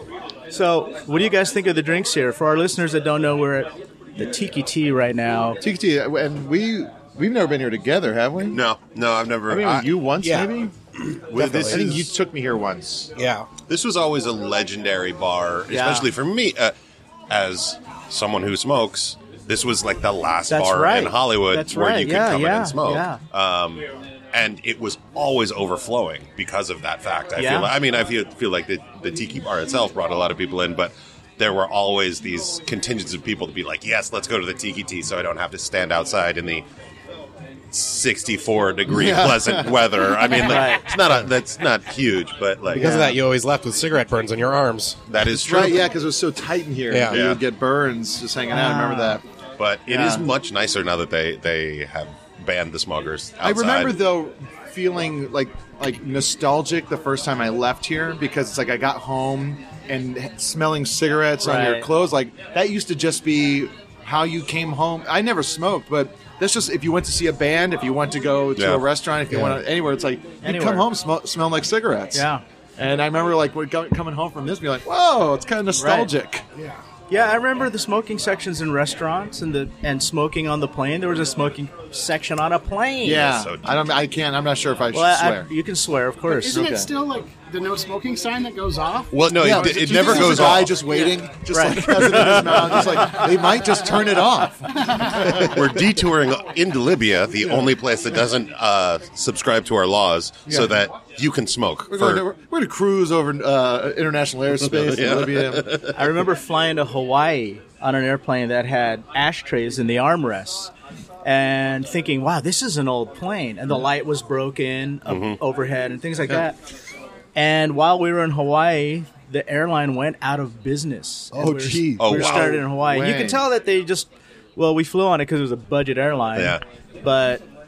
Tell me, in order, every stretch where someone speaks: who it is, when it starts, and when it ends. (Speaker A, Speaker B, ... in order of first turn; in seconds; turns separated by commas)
Speaker A: 0.5-5.6, Speaker B: 5.6-8.6, Speaker C: 8.5-9.9, Speaker B: 9.5-10.7, Speaker D: 10.2-10.5, Speaker B: 11.3-13.1, Speaker D: 11.3-12.1, Speaker C: 11.3-11.9, Speaker D: 13.2-13.5, Speaker C: 13.7-16.7, Speaker A: 15.7-16.1, Speaker C: 17.3-36.6, Speaker A: 20.5-23.2, Speaker A: 27.4-27.7, Speaker C: 37.7-43.0, Speaker B: 38.9-40.4, Speaker A: 40.4-40.9, Speaker D: 42.7-45.0, Speaker B: 42.7-43.2, Speaker C: 45.1-45.9, Speaker B: 45.3-49.2, Speaker D: 46.9-47.2, Speaker C: 47.1-47.4, Speaker A: 48.5-49.2, Speaker C: 49.6-54.0, Speaker B: 49.9-50.3, Speaker B: 53.4-72.3, Speaker A: 61.4-61.9, Speaker C: 68.6-68.8, Speaker D: 69.3-69.6, Speaker A: 70.4-70.9, Speaker A: 72.1-72.4, Speaker B: 72.8-76.5, Speaker A: 75.8-76.1, Speaker A: 77.1-83.3, Speaker B: 83.0-85.5, Speaker C: 83.1-84.0, Speaker A: 84.9-86.8, Speaker E: 86.3-91.1, Speaker B: 86.5-86.9, Speaker C: 89.1-90.8, Speaker B: 89.4-95.7, Speaker A: 91.5-93.3, Speaker C: 95.3-102.2, Speaker B: 97.4-97.7, Speaker B: 100.5-100.8, Speaker B: 101.9-105.8, Speaker C: 104.6-106.1, Speaker A: 105.9-110.7, Speaker A: 111.2-116.6, Speaker C: 115.1-115.4, Speaker A: 117.3-127.5, Speaker B: 121.3-123.4, Speaker C: 122.0-122.6, Speaker C: 126.4-126.6